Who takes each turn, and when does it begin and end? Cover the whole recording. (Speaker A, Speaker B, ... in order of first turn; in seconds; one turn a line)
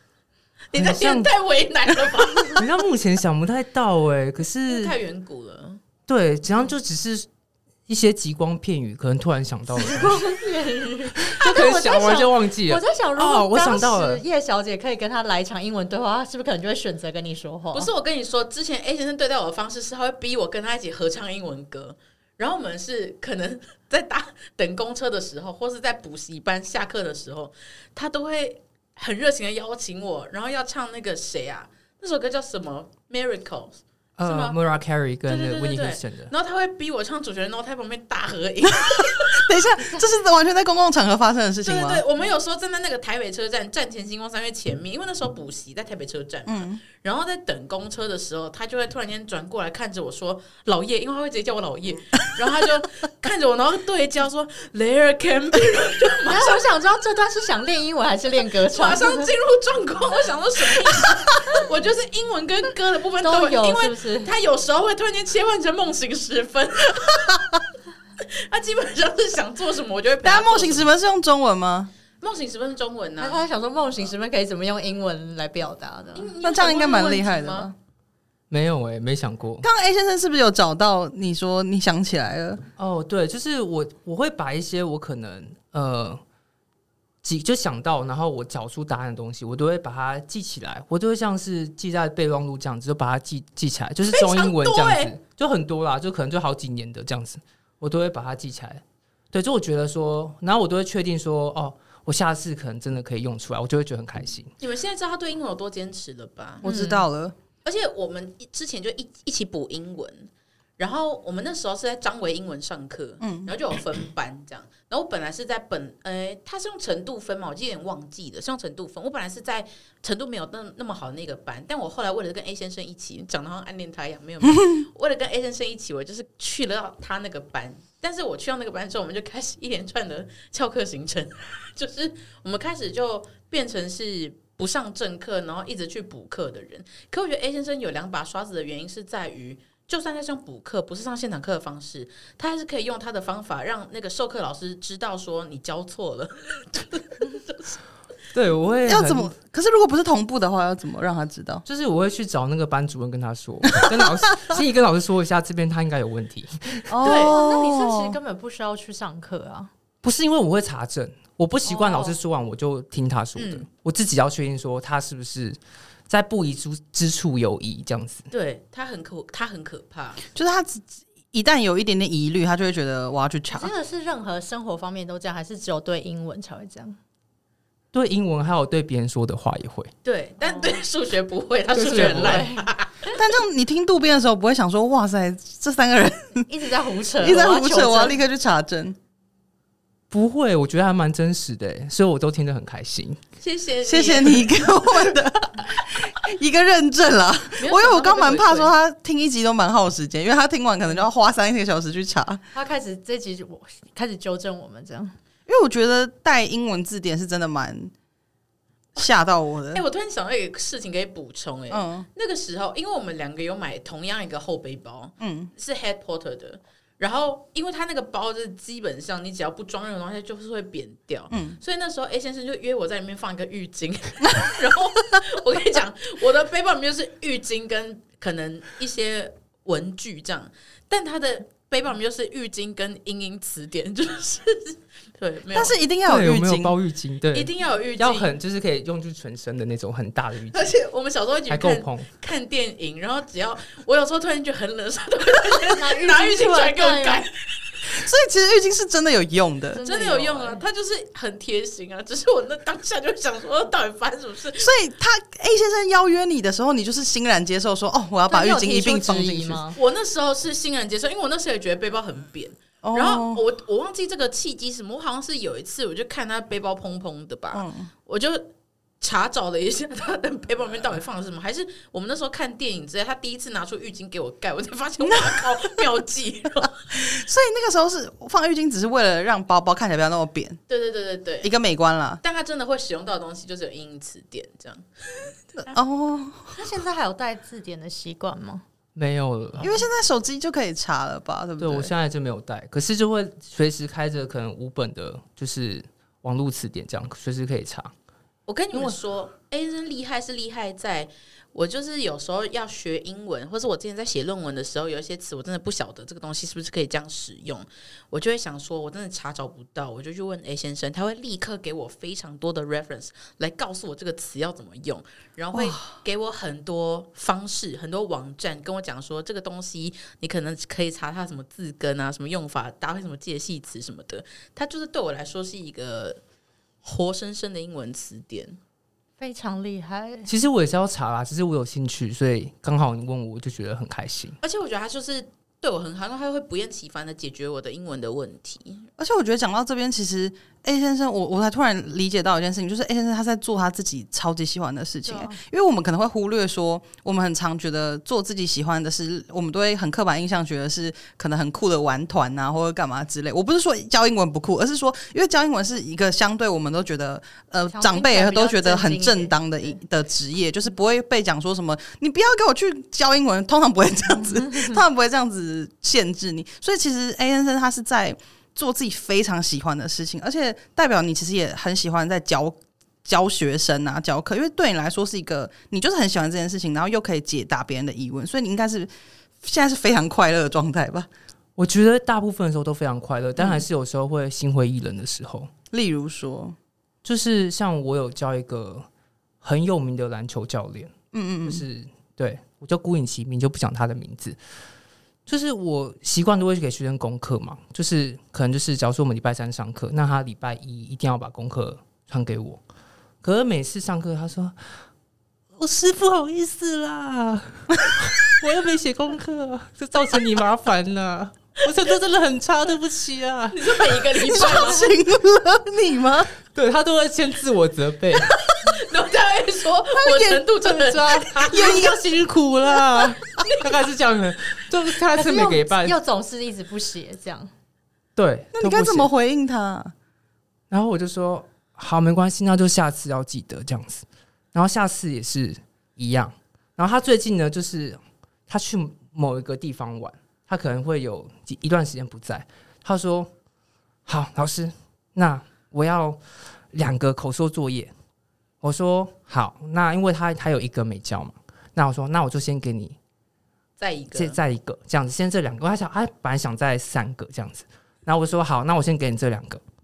Speaker A: 0.7-2.7
Speaker B: 0.8-1.3
Speaker B: 2.6-5.0
Speaker A: 4.7-5.8
Speaker B: 6.1-7.3
Speaker B: 7.9-10.2
Speaker C: 9.8-17.9
Speaker B: 11.2-14.2
Speaker A: 17.7-34.6
Speaker B: 34.2-36.3
Speaker A: 35.3-39.6
Speaker D: 38.7-42.0
Speaker A: 41.6-56.6
Speaker D: 46.5-46.8
Speaker C: 56.3-59.3
Speaker A: 58.7-67.6
Speaker C: 63.2-64.3
Speaker A: 68.2-70.9
Speaker D: 70.2-71.9
Speaker A: 72.2-73.4
Speaker C: 73.2-76.3
Speaker A: 76.2-77.7
Speaker D: 76.4-77.8
Speaker B: 78.5-79.7
Speaker D: 79.6-82.6
Speaker B: 82.8-86.2
Speaker B: 87.2-104.5
Speaker A: 94.1-95.1
Speaker A: 104.6-106.9
Speaker D: 106.6-107.3
Speaker C: 106.7-107.0
Speaker A: 107.7-147.8
Speaker D: 113.2-113.5
Speaker B: 148.3-149.3
Speaker D: 148.9-151.6
Speaker B: 151.7-157.0
Speaker D: 156.9-158.2
Speaker A: 157.0-157.4
Speaker C: 157.0-159.7
Speaker B: 160.0-165.6
Speaker A: 161.7-162.2
Speaker A: 163.4-163.7
Speaker B: 166.1-168.3
Speaker A: 168.3-170.2
Speaker D: 170.3-173.7
Speaker C: 173.5-177.0
Speaker B: 177.9-179.9
Speaker A: 180.1-183.1
Speaker C: 180.4-180.8
Speaker B: 181.7-182.5
Speaker C: 182.0-182.7
Speaker D: 183.1-186.5
Speaker C: 186.5-188.2
Speaker D: 187.2-189.0
Speaker B: 190.1-193.2
Speaker A: 193.4-194.9
Speaker D: 193.8-202.4
Speaker A: 197.6-198.7
Speaker C: 202.5-205.2
Speaker D: 205.5-207.9
Speaker D: 209.0-209.8
Speaker A: 209.7-235.8
Speaker D: 211.7-212.1
Speaker D: 215.2-215.5
Speaker D: 221.3-221.6
Speaker D: 235.5-236.7
Speaker B: 236.1-240.8
Speaker A: 237.3-238.3
Speaker A: 240.5-247.3
Speaker B: 241.5-242.1
Speaker C: 245.8-247.2
Speaker D: 247.9-249.8
Speaker C: 249.7-250.7
Speaker A: 249.8-254.7
Speaker D: 254.6-259.6
Speaker C: 258.3-259.8
Speaker A: 259.8-277.2
Speaker D: 262.8-263.4
Speaker D: 267.5-267.9
Speaker D: 275.0-275.8
Speaker D: 276.9-280.6
Speaker A: 280.7-281.5
Speaker D: 281.4-282.2
Speaker A: 282.2-285.7
Speaker D: 285.6-286.6
Speaker C: 286.5-288.6
Speaker B: 288.9-289.8
Speaker D: 289.6-291.9
Speaker B: 291.6-297.9
Speaker A: 298.5-326.2
Speaker B: 298.7-299.0
Speaker D: 315.5-315.9
Speaker A: 326.8-328.6
Speaker C: 329.2-330.3
Speaker B: 330.3-334.4
Speaker A: 334.4-338.9
Speaker D: 339.0-378.9
Speaker C: 345.1-345.4
Speaker C: 357.7-359.8
Speaker D: 379.4-381.1
Speaker B: 381.6-385.5
Speaker D: 383.4-383.6
Speaker D: 385.7-386.6
Speaker B: 387.0-388.9
Speaker B: 389.4-390.9
Speaker D: 391.1-391.6
Speaker B: 391.4-394.4
Speaker B: 395.3-402.6
Speaker B: 403.2-404.6
Speaker B: 405.6-414.1
Speaker A: 413.5-415.0
Speaker D: 414.2-416.3
Speaker B: 416.5-418.4
Speaker A: 418.5-422.0
Speaker D: 420.0-422.0
Speaker B: 420.9-426.0
Speaker D: 422.8-423.2
Speaker A: 423.4-423.7
Speaker C: 425.1-427.5
Speaker B: 428.2-429.1
Speaker D: 428.6-429.9
Speaker B: 430.7-443.3
Speaker B: 444.1-446.2
Speaker B: 446.7-447.9
Speaker B: 448.6-453.0
Speaker A: 453.8-454.4
Speaker B: 454.1-459.6